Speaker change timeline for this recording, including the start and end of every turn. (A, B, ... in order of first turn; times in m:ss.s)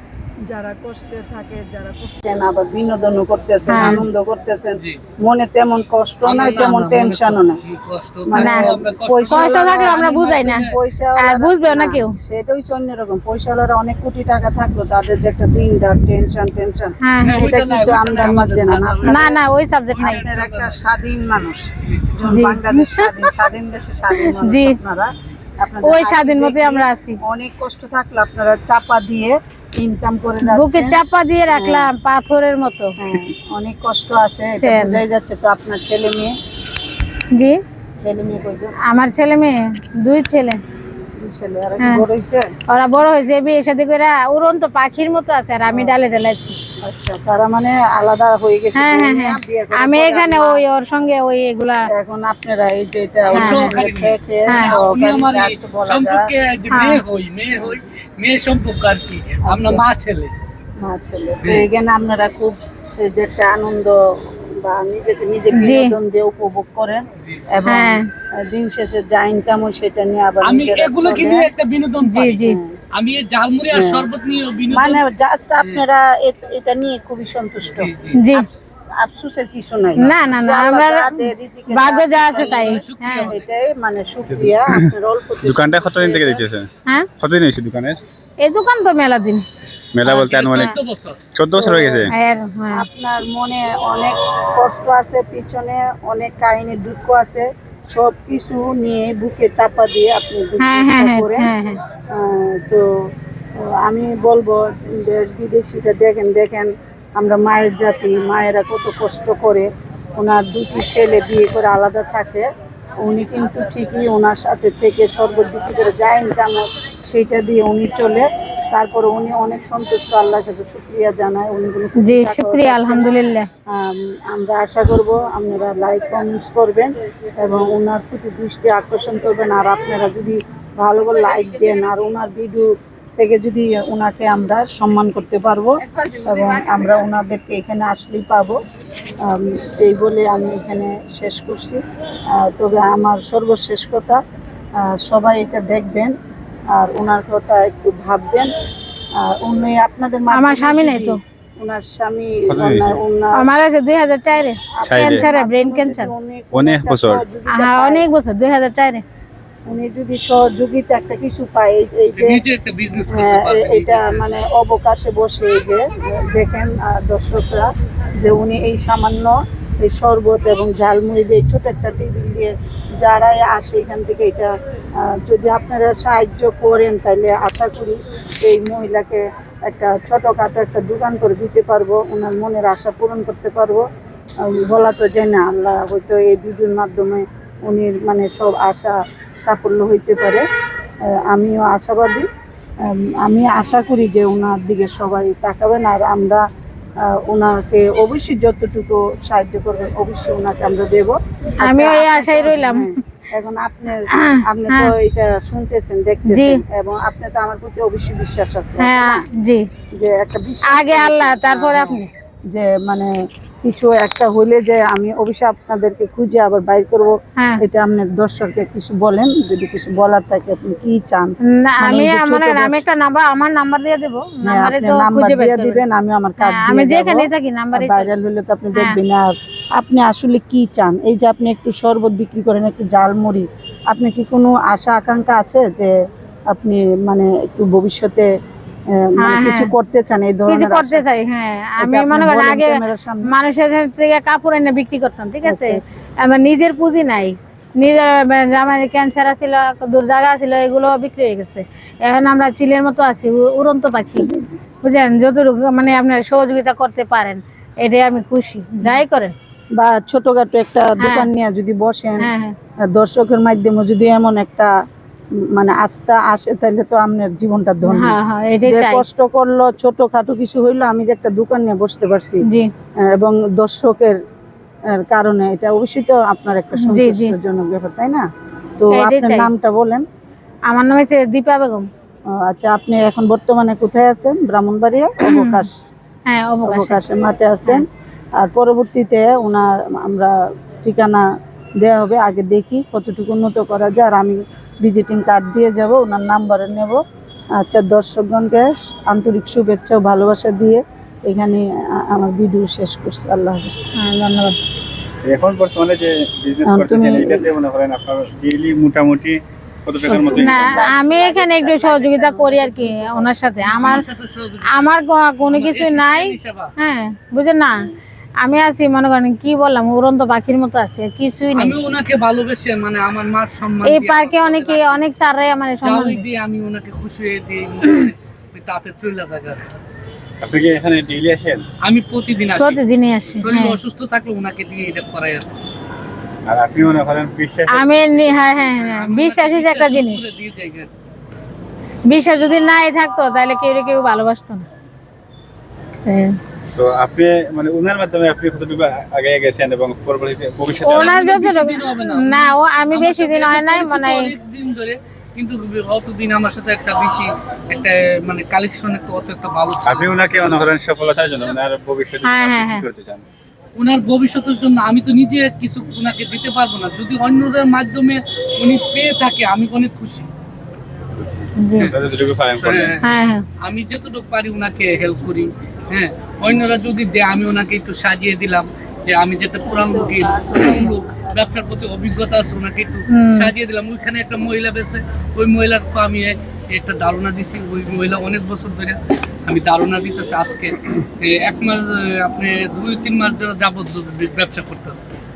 0:00.5-0:07.6 A
0:03.7-0:04.0 B
0:06.2-0:10.8 C
0:08.3-0:19.4 A
0:08.3-0:08.7 B
0:09.3-0:12.2 B
0:17.0-0:17.6 B
0:17.2-0:19.4 C
0:19.0-0:20.3 B
0:20.0-0:20.8 C
0:20.0-0:31.0 A
0:21.8-0:22.1 C
0:22.3-0:23.3 B
0:24.2-0:24.8 B
0:25.8-0:27.2 B
0:30.5-0:33.0 B
0:31.5-0:31.9 A
0:33.0-0:36.4 A
0:34.6-0:35.0 B
0:37.3-0:37.6 B
0:38.0-0:38.8 A
0:38.8-0:40.6 B
0:41.2-0:42.5 A
0:41.8-0:42.0 B
0:42.7-0:46.6 B
0:45.7-0:45.9 A
0:46.8-0:50.6 A
0:48.8-0:51.9 B
0:51.9-0:56.2 A
0:53.3-1:00.3 C
0:53.3-0:53.8 B
0:54.5-0:54.8 B
0:56.7-0:57.0 B
0:59.5-0:59.8 A
1:00.8-1:11.5 A
1:05.5-1:06.0 B
1:07.7-1:08.1 B
1:10.4-1:15.0 C
1:12.0-1:12.6 B
1:12.4-1:12.8 A
1:13.7-1:14.1 A
1:14.7-1:26.4 A
1:15.6-1:15.8 C
1:17.6-1:18.2 C
1:18.2-1:18.5 B
1:20.0-1:23.3 B
1:22.3-1:23.4 C
1:24.3-1:24.8 D
1:25.4-1:26.7 D
1:27.2-1:28.0 D
1:28.4-1:29.4 B
1:30.0-1:30.7 D
1:30.0-1:31.2 C
1:30.1-1:30.7 B
1:31.4-1:32.1 D
1:31.6-1:32.1 A
1:32.1-1:32.9 B
1:32.7-1:41.5 A
1:40.6-1:41.8 B
1:42.1-1:52.5 A
1:53.0-2:03.1 A
2:02.0-2:03.5 B
2:03.7-2:18.6 A
2:19.2-2:24.2 A
2:24.8-2:26.2 A
2:26.7-2:28.5 A
2:29.2-2:33.5 A
2:30.3-2:31.2 B
2:32.5-2:33.0 D
2:33.4-2:36.1 B
2:34.8-2:38.0 A
2:34.8-2:35.3 D
2:36.5-2:37.2 D
2:37.5-2:39.0 B
2:39.7-2:42.4 A
2:42.1-2:44.4 C
2:43.1-3:03.9 A
3:04.4-3:10.5 A
3:11.1-3:12.3 A
3:12.8-3:16.4 A
3:17.0-3:29.2 A
3:21.6-3:22.9 B
3:24.1-3:24.9 B
3:26.3-3:26.6 B
3:28.8-3:29.6 B
3:29.9-3:42.8 A
3:30.7-3:32.1 B
3:37.4-3:37.6 B
3:41.5-3:45.8 B
3:44.4-3:55.9 A
3:46.4-3:48.1 B
3:56.5-3:58.3 A
3:58.9-4:01.0 A
3:59.2-3:59.7 B
4:00.5-4:14.3 B
4:01.8-4:03.3 A
4:05.5-4:05.8 A
4:14.8-4:19.4 B
4:19.8-4:22.3 A
4:21.0-4:21.3 B
4:22.2-4:22.6 B
4:22.8-4:24.7 A
4:25.4-4:32.4 A
4:27.8-4:29.0 B
4:32.4-4:32.7 B
4:33.0-4:34.2 A
4:34.9-4:38.2 A
4:36.8-4:37.4 B
4:38.8-4:40.1 A
4:38.9-4:39.5 B
4:40.7-4:41.9 B
4:42.3-4:45.8 A
4:45.3-4:45.6 B
4:46.3-4:47.0 B
4:46.7-4:51.2 A
4:51.8-4:57.0 A
4:57.6-5:03.9 A
5:04.0-5:04.6 B
5:05.2-5:10.8 D
5:06.7-5:07.3 A
5:10.1-5:13.3 A
5:10.3-5:14.0 B
5:13.7-5:14.9 C
5:14.7-5:17.8 B
5:15.4-5:16.7 C
5:18.4-5:21.8 B
5:21.6-5:25.0 C
5:23.8-5:26.2 B
5:25.8-5:29.6 C
5:30.4-5:31.6 D
5:31.8-5:32.8 C
5:32.6-5:33.8 B
5:33.4-5:35.6 C
5:36.5-5:37.9 D
5:37.7-5:40.2 B
5:38.7-5:40.9 C
5:42.1-5:44.7 B
5:46.0-5:46.4 B
5:46.8-5:51.3 D
5:50.8-6:00.2 C
5:50.9-5:54.3 B
5:59.8-6:03.2 D
6:02.2-6:02.8 B
6:03.8-6:10.3 C
6:11.6-6:11.9 B
6:11.8-6:13.0 D
6:12.6-6:13.0 C
6:13.0-6:13.4 B
6:13.6-6:35.2 C
6:19.7-6:21.0 A
6:23.1-6:23.5 B